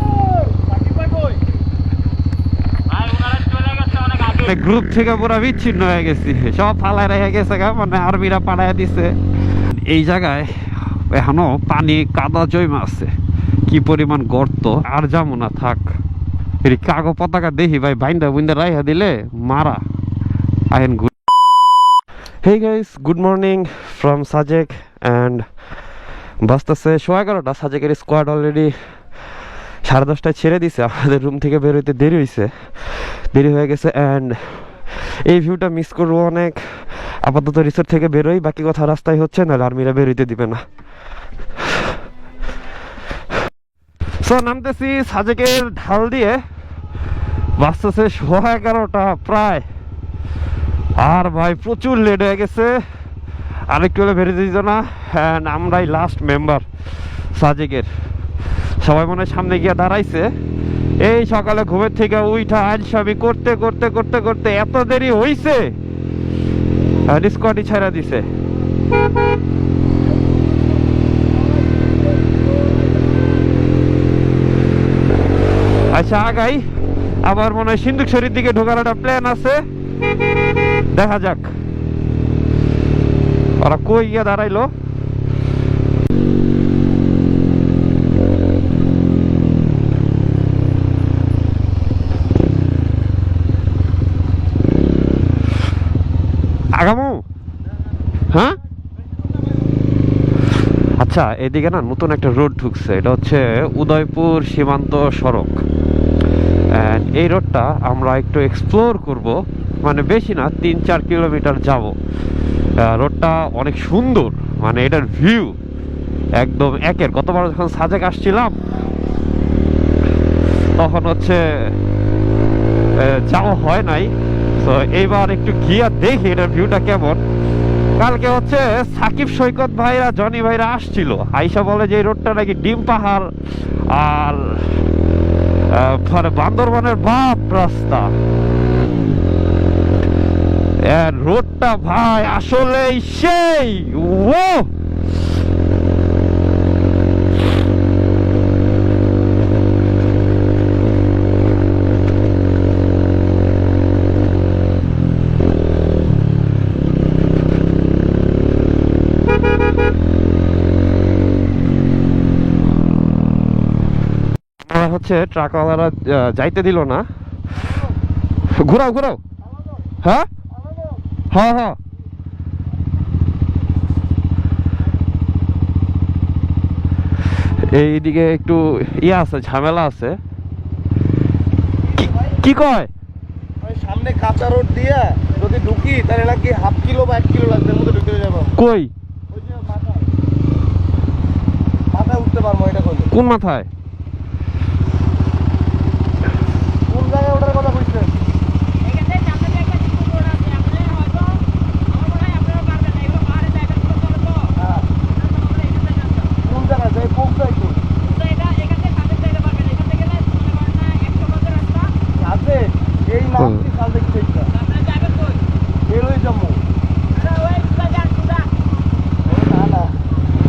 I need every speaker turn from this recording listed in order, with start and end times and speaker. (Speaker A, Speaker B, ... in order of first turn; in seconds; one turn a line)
Speaker A: 0.3-1.4
Speaker B: 2.9-4.5
Speaker C: 4.4-9.1
Speaker C: 9.8-13.1
Speaker C: 13.7-15.9
Speaker C: 16.6-19.8
Speaker C: 20.7-21.1
Speaker C: 22.4-25.5
Speaker C: 26.4-28.7
Speaker C: 29.8-32.5
Speaker C: 33.3-40.6
Speaker C: 44.2-46.4
Speaker C: 47.6-49.6
Speaker C: 51.0-52.8
Speaker C: 53.7-56.6
Speaker C: 57.3-57.9
Speaker C: 58.8-60.3
Speaker C: 61.0-65.7
Speaker C: 67.0-68.2
Speaker A: 71.6-73.3
Speaker C: 75.9-76.6
Speaker C: 77.2-79.6
Speaker C: 80.9-81.5
Speaker C: 83.6-84.7
Speaker C: 96.8-97.2
Speaker C: 98.3-98.6
Speaker C: 101.0-105.6
Speaker C: 106.7-112.0
Speaker C: 112.8-115.5
Speaker C: 116.3-118.6
Speaker C: 120.8-121.8
Speaker C: 123.0-127.2
Speaker C: 128.0-133.3
Speaker C: 133.9-134.8
Speaker C: 135.7-138.1
Speaker C: 140.8-144.7
Speaker C: 164.7-167.1
Speaker C: 168.5-169.2
Speaker C: 170.0-170.3
Speaker C: 171.3-171.8
Speaker C: 177.6-180.2
Speaker C: 182.0-182.9
Speaker A: 183.6-188.6
Speaker C: 188.6-188.9
Speaker A: 189.3-190.1
Speaker A: 191.9-193.1
Speaker C: 193.1-193.7
Speaker A: 196.9-198.1
Speaker B: 198.8-204.5
Speaker A: 204.6-204.9
Speaker B: 205.1-206.3
Speaker A: 206.4-207.8
Speaker B: 208.0-211.9
Speaker A: 212.2-214.5
Speaker B: 214.6-215.4
Speaker A: 215.9-216.6
Speaker B: 217.1-218.5
Speaker A: 219.2-219.9